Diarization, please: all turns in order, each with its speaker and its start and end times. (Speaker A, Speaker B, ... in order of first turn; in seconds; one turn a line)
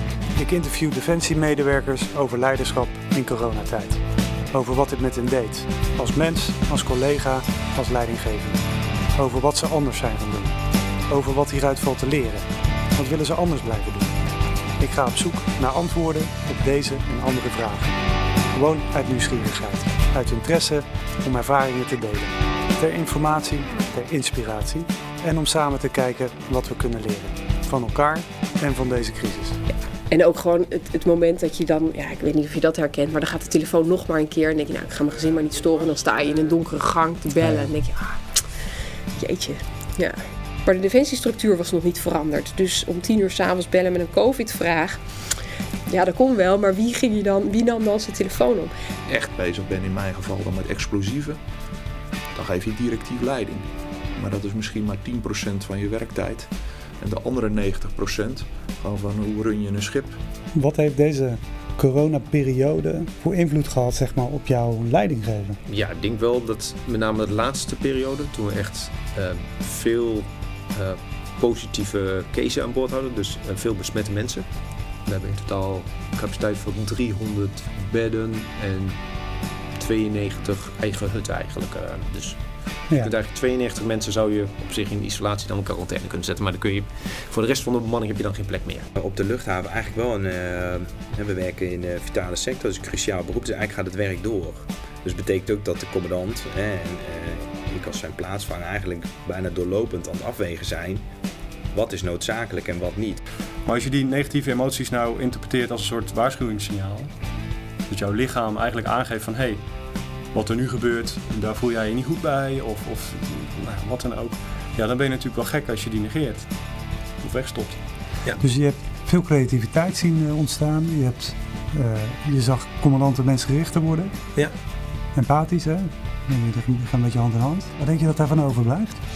Speaker A: 0.4-8.6
Speaker A: 9.2-10.5
Speaker A: 11.1-14.1
Speaker A: 14.8-17.9
Speaker A: 18.5-29.6
Speaker B: 30.1-38.4
Speaker B: 39.2-45.0
Speaker B: 45.9-48.7
Speaker C: 49.1-51.4
Speaker C: 52.4-60.2
Speaker A: 60.5-65.6
Speaker D: 65.7-74.5
Speaker D: 75.0-79.0
Speaker D: 79.8-88.9
Speaker E: 89.0-101.0
Speaker E: 101.7-103.2
Speaker F: 103.7-107.1
Speaker F: 107.9-109.6
Speaker F: 110.3-116.5
Speaker F: 117.2-117.8
Speaker A: 118.4-124.1
Speaker A: 125.2-129.0